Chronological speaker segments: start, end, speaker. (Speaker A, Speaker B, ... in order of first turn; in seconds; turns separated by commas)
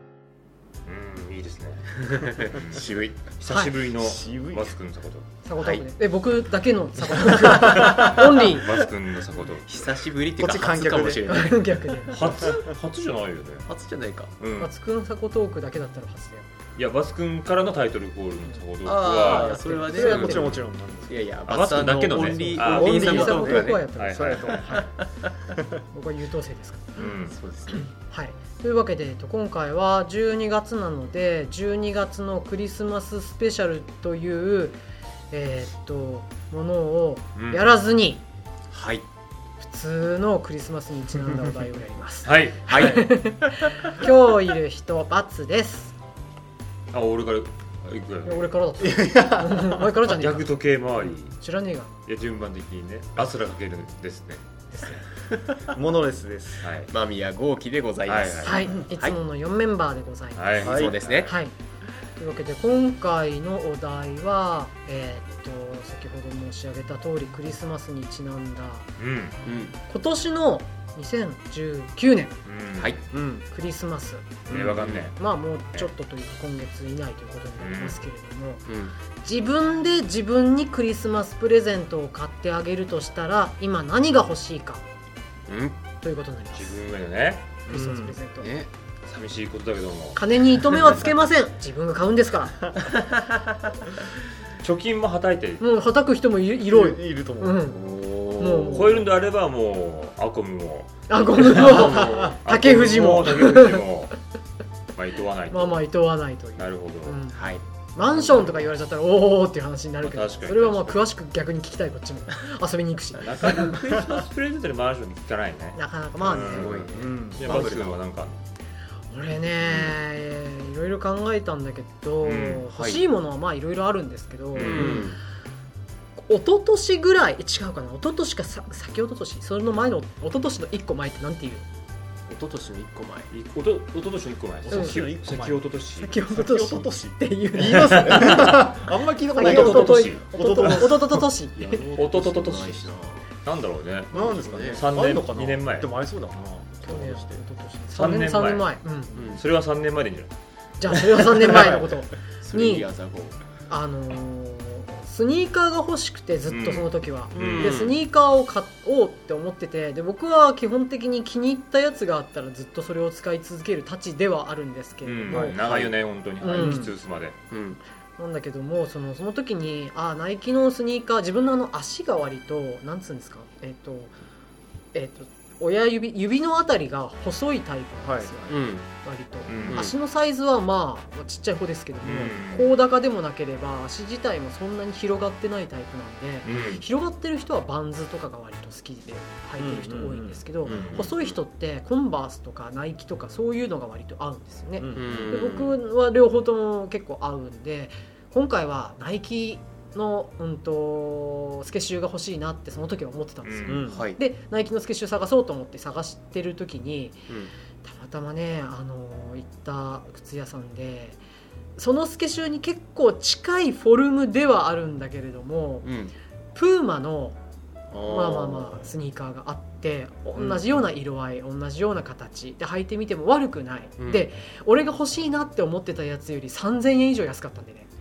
Speaker A: 0.8-5.2, Speaker B: 2.5-3.2, Speaker C: 3.5-3.7, Speaker D: 4.0-4.7, Speaker C: 5.4-8.7, Speaker B: 5.6-5.8, Speaker A: 7.7-9.7, Speaker B: 9.6-12.5, Speaker D: 10.4-11.4, Speaker C: 11.3-12.1, Speaker A: 12.1-13.7, Speaker B: 13.7-14.3, Speaker A: 14.4-14.7, Speaker C: 14.6-16.4, Speaker A: 16.8-20.6, Speaker B: 18.8-20.4, Speaker C: 19.2-20.3, Speaker D: 19.7-21.2, Speaker B: 21.1-23.9, Speaker A: 21.5-24.5, Speaker C: 22.5-24.8, Speaker D: 22.6-24.9, Speaker B: 24.4-24.9, Speaker C: 25.9-27.0, Speaker A: 26.9-27.4, Speaker B: 27.0-27.9, Speaker C: 27.9-34.8, Speaker C: 35.3-38.2, Speaker A: 37.4-37.6, Speaker B: 38.7-39.0, Speaker C: 39.6-45.9, Speaker A: 42.2-42.8, Speaker B: 42.7-43.5, Speaker A: 46.9-48.5, Speaker C: 48.2-51.9, Speaker D: 48.8-49.8, Speaker A: 50.0-51.3, Speaker A: 52.0-54.4, Speaker C: 54.7-55.0, Speaker D: 55.7-56.6, Speaker A: 56.6-56.9, Speaker B: 56.9-59.1, Speaker A: 58.0-58.6, Speaker C: 58.4-61.5, Speaker A: 60.3-61.3, Speaker D: 60.6-61.0, Speaker B: 60.6-61.3, Speaker C: 62.1-68.9, Speaker A: 69.0-69.3, Speaker B: 69.4-69.7, Speaker C: 69.7-72.4, Speaker A: 72.4-73.0, Speaker D: 73.1-73.5, Speaker C: 73.5-74.4, Speaker D: 74.5-74.8, Speaker A: 74.5-75.2, Speaker B: 74.5-75.1, Speaker C: 75.1-78.7, Speaker A: 77.6-78.0, Speaker B: 78.7-78.9, Speaker C: 79.2-84.8, Speaker B: 85.5-85.8, Speaker C: 86.0-86.8, Speaker A: 86.5-87.6, Speaker C: 87.7-88.5, Speaker D: 87.7-88.2, Speaker B: 88.4-88.7, Speaker A: 89.0-90.2, Speaker C: 90.1-92.7, Speaker A: 94.6-95.6, Speaker C: 95.6-97.8, Speaker D: 96.7-97.6, Speaker B: 97.7-99.0, Speaker C: 98.4-99.0, Speaker A: 98.7-104.2, Speaker C: 101.1-103.8, Speaker B: 101.6-102.3, Speaker D: 101.8-102.2, Speaker A: 105.0-105.9, Speaker C: 105.5-107.4, Speaker A: 106.6-107.2, Speaker B: 107.3-107.6, Speaker C: 107.9-113.8, Speaker A: 108.2-108.5, Speaker A: 110.0-111.0, Speaker A: 113.2-118.4, Speaker C: 115.7-116.8, Speaker B: 116.5-118.0, Speaker D: 116.9-117.8, Speaker C: 119.1-125.0, Speaker B: 119.7-120.0, Speaker A: 122.2-122.7, Speaker B: 122.7-123.0, Speaker A: 124.5-125.0, Speaker B: 124.6-125.2, Speaker C: 126.3-131.6, Speaker B: 132.3-133.3, Speaker A: 133.3-136.1, Speaker D: 134.6-140.9, Speaker C: 134.7-135.0, Speaker C: 136.0-138.6, Speaker A: 137.8-138.7, Speaker C: 139.3-141.8, Speaker A: 139.4-140.9, Speaker B: 141.6-143.3, Speaker A: 141.9-142.9, Speaker A: 143.4-145.9, Speaker B: 144.1-144.8, Speaker D: 144.1-147.4, Speaker C: 146.8-149.1, Speaker A: 147.9-148.7, Speaker B: 149.1-149.4, Speaker A: 149.2-150.3, Speaker C: 150.8-152.9, Speaker A: 150.9-151.5, Speaker D: 151.5-152.0, Speaker B: 152.4-153.4, Speaker C: 153.7-165.6, Speaker A: 156.5-157.8, Speaker B: 157.3-158.0, Speaker A: 165.0-167.3, Speaker D: 165.3-165.6, Speaker B: 165.6-165.9, Speaker C: 166.4-166.9, Speaker D: 166.5-166.9, Speaker B: 167.5-167.8, Speaker C: 168.2-174.1, Speaker C: 174.9-207.3, Speaker D: 178.0-178.3, Speaker B: 178.5-178.9, Speaker A: 179.5-179.9, Speaker B: 179.7-179.9, Speaker A: 182.0-182.7, Speaker A: 186.4-186.8, Speaker D: 189.6-191.1, Speaker A: 190.7-191.4, Speaker D: 194.8-195.4, Speaker B: 194.9-195.8, Speaker A: 203.4-203.9, Speaker D: 203.7-204.0, Speaker B: 203.9-204.2, Speaker C: 207.8-211.2, Speaker C: 211.8-215.9, Speaker B: 215.8-216.1, Speaker C: 216.5-217.4, Speaker B: 217.9-218.9, Speaker C: 218.0-227.9, Speaker B: 220.3-220.7, Speaker B: 224.0-224.3